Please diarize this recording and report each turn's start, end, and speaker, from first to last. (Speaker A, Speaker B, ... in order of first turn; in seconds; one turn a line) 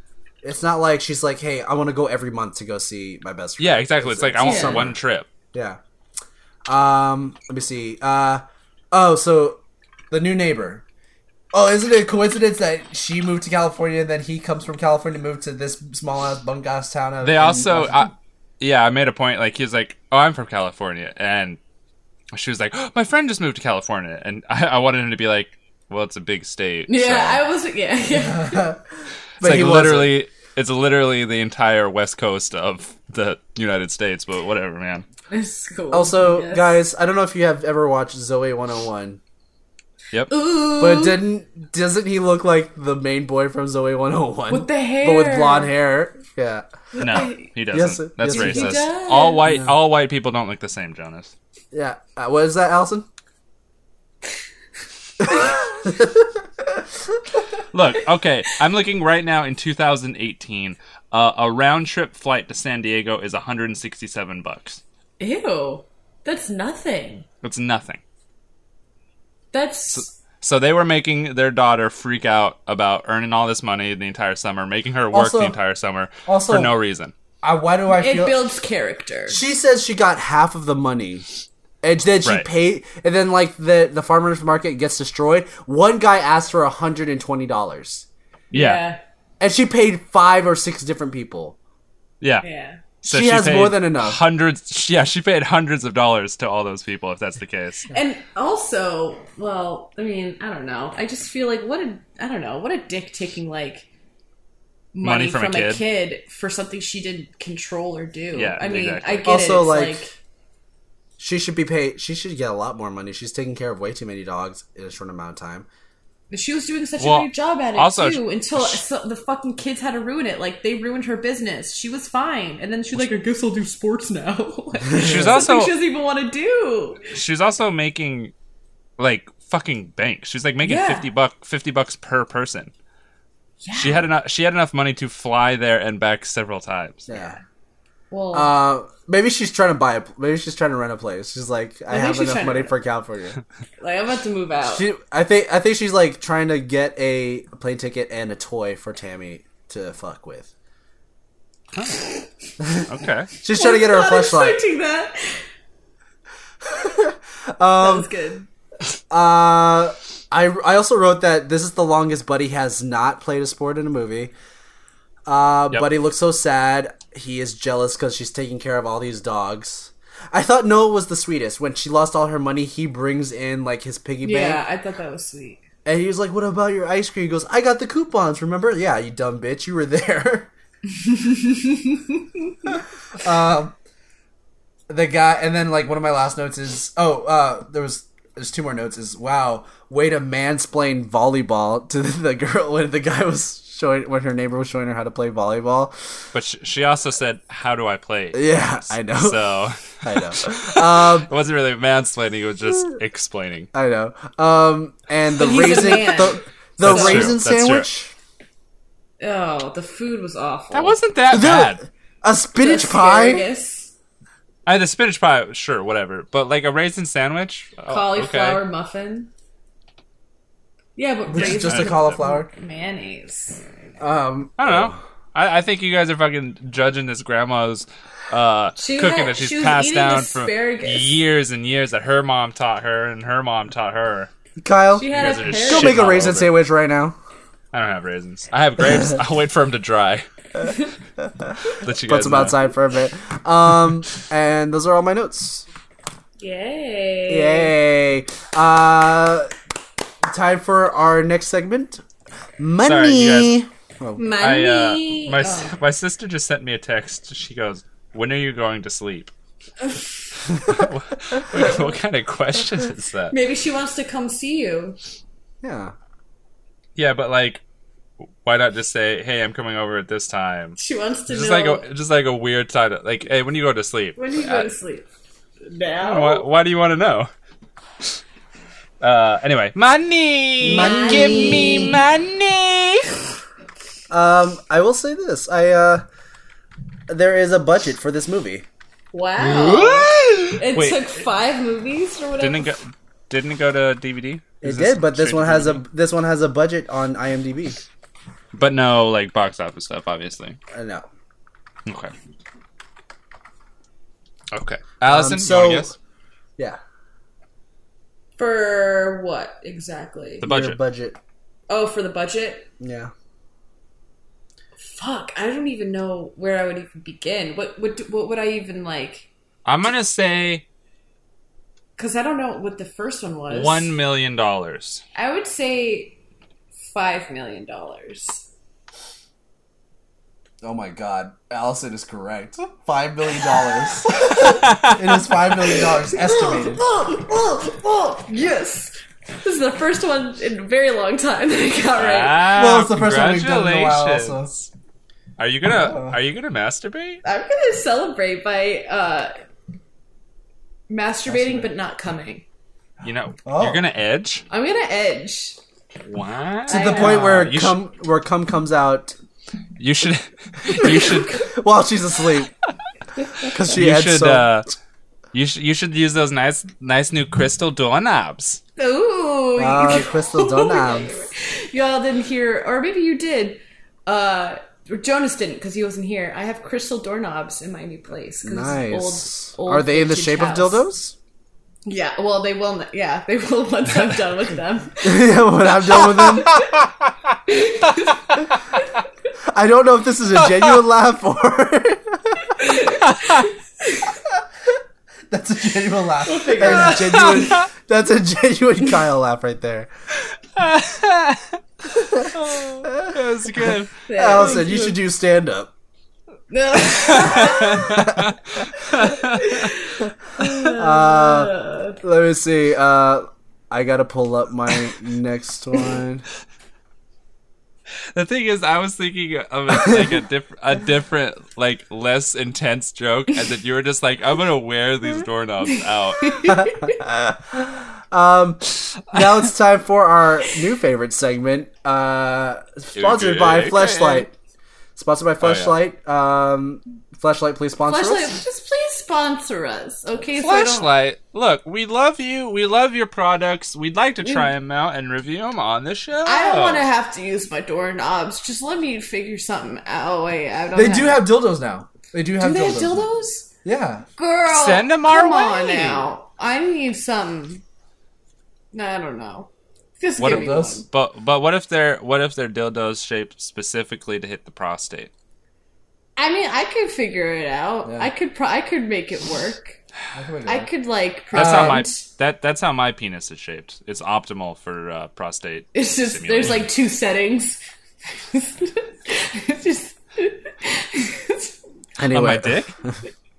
Speaker A: 0.4-5.0
Speaker B: 3.6-5.3
Speaker C: 4.4-4.9
Speaker A: 5.5-5.8
Speaker A: 6.7-9.6
Speaker A: 10.1-10.8
Speaker A: 11.5-18.1
Speaker B: 17.2-21.6
Speaker B: 22.3-27.4
Speaker C: 26.9-28.6
Speaker A: 28.1-28.8
Speaker A: 29.4-30.2
Speaker B: 29.4-35.0
Speaker C: 35.3-36.8
Speaker A: 35.9-39.2
Speaker C: 40.3-41.2
Speaker A: 40.8-46.7
Speaker C: 44.5-45.7
Speaker C: 47.0-47.5
Speaker B: 47.0-51.3
Speaker A: 47.7-48.9
Speaker C: 48.3-49.4
Speaker A: 49.4-49.7
Speaker A: 51.7-53.1
Speaker A: 55.2-57.2
Speaker B: 57.7-64.8
Speaker C: 65.2-67.2
Speaker B: 67.4-68.0
Speaker C: 69.5-70.1
Speaker B: 69.9-77.1
Speaker A: 75.1-75.6
Speaker A: 76.3-76.7
Speaker A: 77.4-78.4
Speaker C: 77.9-79.4
Speaker A: 79.3-81.2
Speaker A: 81.8-88.1
Speaker B: 88.5-88.8
Speaker C: 88.5-89.0
Speaker A: 89.4-91.6
Speaker B: 92.2-92.5
Speaker C: 92.4-92.8
Speaker B: 93.0-97.9
Speaker A: 93.0-94.2
Speaker C: 97.9-103.9
Speaker C: 104.9-110.1
Speaker B: 105.0-105.8
Speaker B: 108.3-109.3
Speaker A: 109.2-110.1
Speaker A: 111.2-115.7
Speaker C: 116.3-127.1
Speaker B: 117.0-118.8
Speaker A: 124.9-125.3
Speaker B: 125.0-125.8
Speaker B: 127.1-128.3
Speaker B: 129.0-132.7
Speaker C: 130.6-131.1
Speaker C: 133.6-134.1
Speaker B: 133.7-137.1
Speaker A: 137.1-137.4
Speaker C: 138.1-138.5
Speaker A: 138.3-143.4
Speaker C: 141.9-142.7
Speaker C: 143.8-144.8
Speaker A: 144.6-150.5
Speaker B: 151.8-152.1
Speaker A: 152.6-152.9
Speaker B: 152.9-153.3
Speaker A: 153.4-154.6
Speaker C: 153.5-155.4
Speaker A: 156.6-158.1
Speaker C: 157.8-158.5
Speaker A: 159.1-164.3
Speaker A: 165.3-174.6
Speaker C: 174.2-175.6
Speaker A: 175.8-180.5
Speaker C: 181.0-182.0
Speaker A: 182.7-183.7
Speaker A: 184.9-195.9
Speaker B: 196.3-203.7
Speaker A: 198.3-199.4
Speaker A: 200.0-201.3
Speaker A: 203.7-208.1
Speaker C: 205.3-207.3
Speaker B: 206.8-207.9
Speaker C: 209.2-211.0
Speaker B: 210.7-211.8
Speaker A: 211.3-213.4
Speaker C: 212.6-213.9
Speaker B: 214.7-218.6
Speaker C: 217.9-219.3
Speaker C: 221.0-223.6
Speaker A: 221.3-222.5
Speaker B: 221.4-222.2
Speaker A: 224.0-225.0
Speaker B: 224.6-234.3
Speaker C: 228.8-231.2
Speaker A: 234.6-237.2
Speaker C: 234.9-236.2
Speaker B: 235.1-236.6
Speaker B: 237.7-240.3
Speaker A: 240.6-245.7
Speaker B: 241.8-242.6
Speaker C: 246.4-247.7
Speaker A: 247.3-249.5
Speaker A: 250.2-252.0
Speaker A: 252.6-254.2
Speaker B: 252.8-253.5
Speaker C: 254.2-255.8
Speaker B: 254.4-259.3
Speaker B: 260.6-263.4
Speaker C: 263.3-265.0
Speaker A: 265.6-265.9
Speaker B: 267.0-267.6
Speaker B: 268.4-274.7
Speaker C: 270.8-271.8
Speaker C: 274.2-275.1
Speaker C: 275.6-276.5
Speaker B: 276.0-277.3
Speaker B: 279.0-283.1
Speaker A: 280.6-281.9
Speaker C: 280.6-282.0
Speaker A: 284.1-286.1
Speaker A: 287.1-288.7
Speaker C: 289.1-292.7
Speaker B: 289.4-291.1
Speaker B: 292.4-295.8
Speaker A: 294.6-297.8
Speaker B: 298.5-300.6
Speaker A: 300.7-301.1
Speaker B: 301.9-302.1
Speaker B: 304.5-305.9
Speaker A: 305.0-305.9
Speaker C: 308.4-310.5
Speaker B: 310.4-310.8
Speaker A: 310.4-311.2
Speaker C: 311.7-312.7
Speaker A: 312.8-313.1
Speaker C: 314.8-319.3
Speaker B: 319.7-320.6
Speaker C: 322.0-324.0
Speaker B: 323.5-325.0
Speaker C: 325.1-326.2
Speaker C: 326.8-328.4
Speaker A: 330.6-336.8
Speaker B: 334.4-335.3
Speaker C: 335.7-342.5
Speaker B: 342.0-344.7
Speaker A: 342.5-344.5
Speaker B: 345.4-347.2
Speaker A: 345.7-346.2
Speaker C: 347.2-349.3
Speaker C: 350.9-352.4
Speaker A: 351.3-351.7
Speaker B: 353.0-354.4
Speaker A: 353.4-353.8
Speaker C: 354.5-355.6
Speaker B: 356.1-357.8
Speaker C: 356.7-357.3
Speaker A: 356.7-359.1
Speaker B: 359.8-361.4
Speaker A: 360.8-362.5
Speaker A: 363.4-364.5
Speaker B: 363.7-364.7
Speaker B: 365.3-368.6
Speaker C: 368.8-380.8
Speaker A: 369.6-371.1
Speaker A: 378.4-381.2
Speaker C: 381.9-386.7
Speaker A: 385.0-386.6
Speaker B: 386.6-387.4
Speaker C: 387.5-388.4
Speaker A: 389.5-392.5
Speaker C: 392.6-394.1
Speaker B: 393.0-393.5
Speaker A: 395.3-399.9
Speaker C: 396.2-397.6
Speaker B: 396.9-397.6
Speaker B: 400.6-403.9
Speaker A: 402.0-402.3
Speaker A: 402.8-403.1
Speaker C: 404.1-405.0
Speaker A: 404.1-405.7
Speaker C: 406.5-408.0
Speaker B: 407.0-409.7
Speaker A: 407.9-408.3
Speaker C: 409.3-412.0
Speaker A: 410.6-416.2
Speaker B: 418.1-426.4
Speaker C: 426.2-427.0
Speaker A: 426.4-434.3
Speaker B: 432.9-434.3
Speaker A: 435.0-438.4
Speaker B: 435.4-435.8
Speaker C: 437.9-440.9
Speaker B: 440.4-446.9
Speaker C: 444.2-444.5
Speaker C: 446.3-451.3
Speaker A: 450.7-453.1
Speaker C: 452.4-453.5
Speaker A: 453.6-454.1
Speaker C: 454.2-457.6
Speaker B: 454.5-456.1
Speaker C: 458.7-460.9
Speaker B: 460.2-465.1
Speaker A: 460.2-460.8
Speaker C: 466.2-469.8
Speaker A: 470.1-470.7
Speaker C: 470.4-472.0
Speaker A: 471.3-471.8
Speaker B: 471.3-476.7
Speaker C: 475.8-477.6
Speaker C: 478.1-481.6
Speaker A: 482.0-483.0
Speaker B: 482.0-482.8